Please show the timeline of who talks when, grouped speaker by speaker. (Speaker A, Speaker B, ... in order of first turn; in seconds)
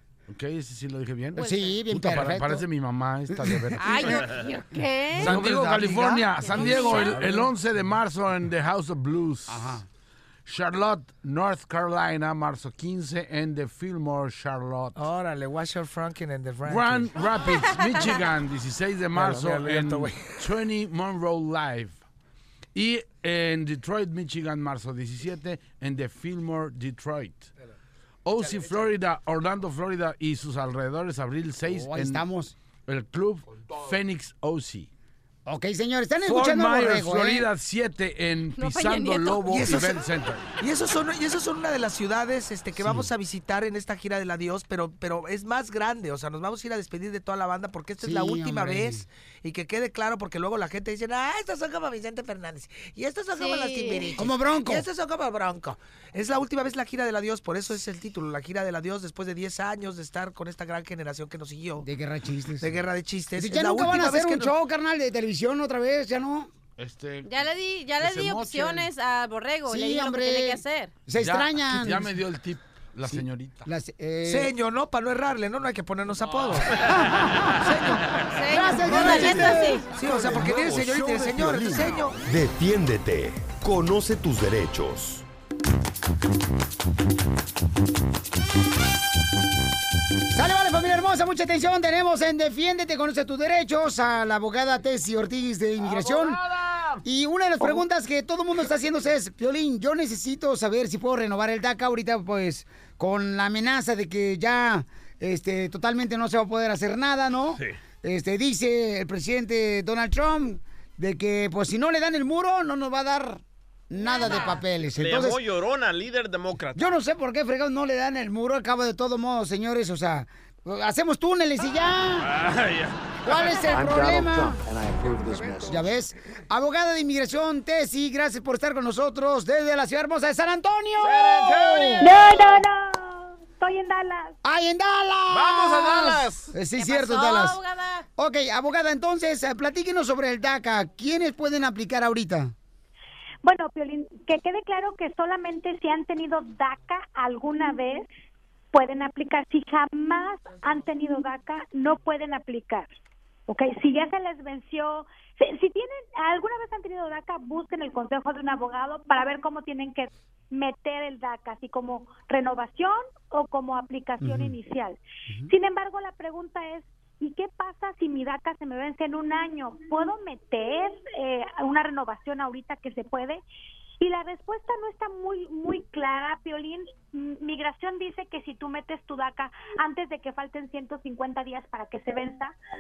Speaker A: 0.3-4.1, 5.2-9.8, 10.5-15.0, 16.6-22.0, 22.8-27.5, 28.2-32.2, 32.9-34.9, 36.2-40.5, 66.8-67.3, 68.0-68.9, 71.1-73.7
Speaker B: 1.4-2.6, 3.3-4.3, 9.5-9.8, 31.7-32.5, 35.5-37.5, 48.0-49.1, 54.2-54.9, 61.8-62.8, 63.4-66.5, 69.7-72.2, 73.0-74.5, 76.9-77.5, 78.5-79.8, 90.3-96.4, 97.0-115.4, 116.8-122.3, 123.3-124.6, 125.6-132.6, 134.4-137.6, 138.2-142.5, 164.2-164.6
Speaker C: 3.8-5.4, 6.4-7.2, 38.5-39.5, 53.3-54.2, 67.2-70.9, 78.3-79.9, 114.2-114.5, 136.8-138.1
Speaker D: 5.2-7.5, 15.0-17.3, 19.1-20.5, 39.5-40.0, 40.6-61.9, 62.6-64.5, 74.2-76.7, 77.6-78.1, 78.8-82.2
Speaker E: 79.1-85.2
Speaker F: 95.9-97.0, 114.2-117.0, 122.2-123.7, 131.0-132.1, 135.3-136.5
Speaker G: 123.7-125.9
Speaker H: 132.0-134.4, 143.4-148.1, 148.7-152.9, 153.5-173.4, 174.0-182.6